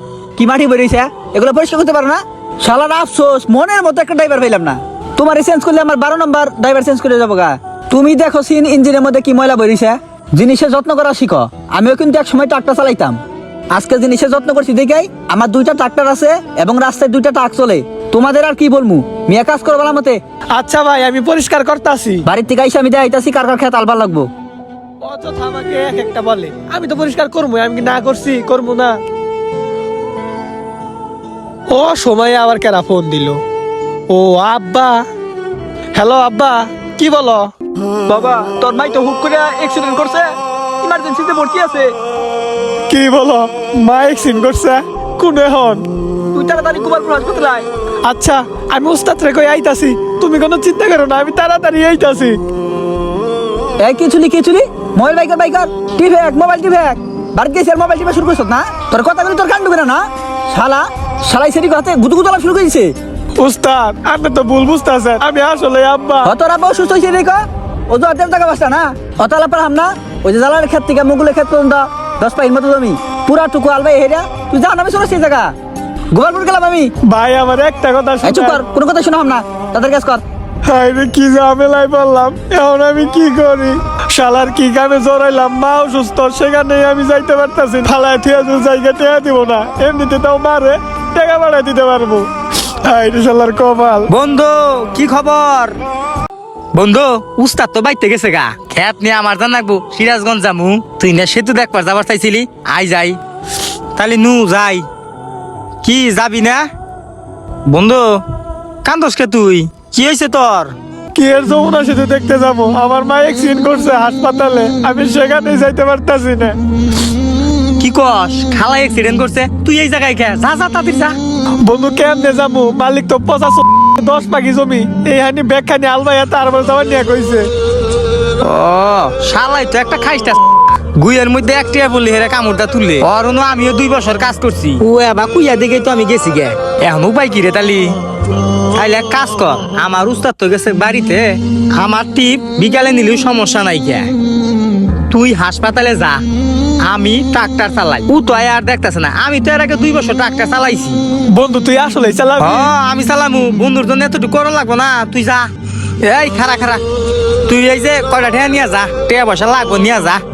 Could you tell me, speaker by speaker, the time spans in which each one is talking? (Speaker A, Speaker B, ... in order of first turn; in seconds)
Speaker A: 0.4-13.2, 13.7-20.2, 22.3-24.3, 38.1-41.9, 46.3-47.7, 53.8-62.9, 66.2-75.5, 76.1-76.9, 78.2-80.2
Speaker B: 20.6-22.2, 25.0-28.9, 31.7-33.4, 34.1-35.0, 36.0-37.5, 42.9-45.8, 48.0-52.4, 63.4-66.3, 77.0-78.6, 80.7-92.3, 92.8-94.1, 111.1-116.6, 121.6-127.5, 151.3-152.7
Speaker C: 94.1-95.7, 96.8-103.2, 104.0-104.8, 105.8-106.7, 107.7-108.2, 108.8-110.7, 117.8-121.2, 128.4-130.4, 131.0-138.0, 138.7-144.1, 145.1-146.2, 146.8-151.0, 152.4-155.5, 156.0-156.8, 157.5-160.2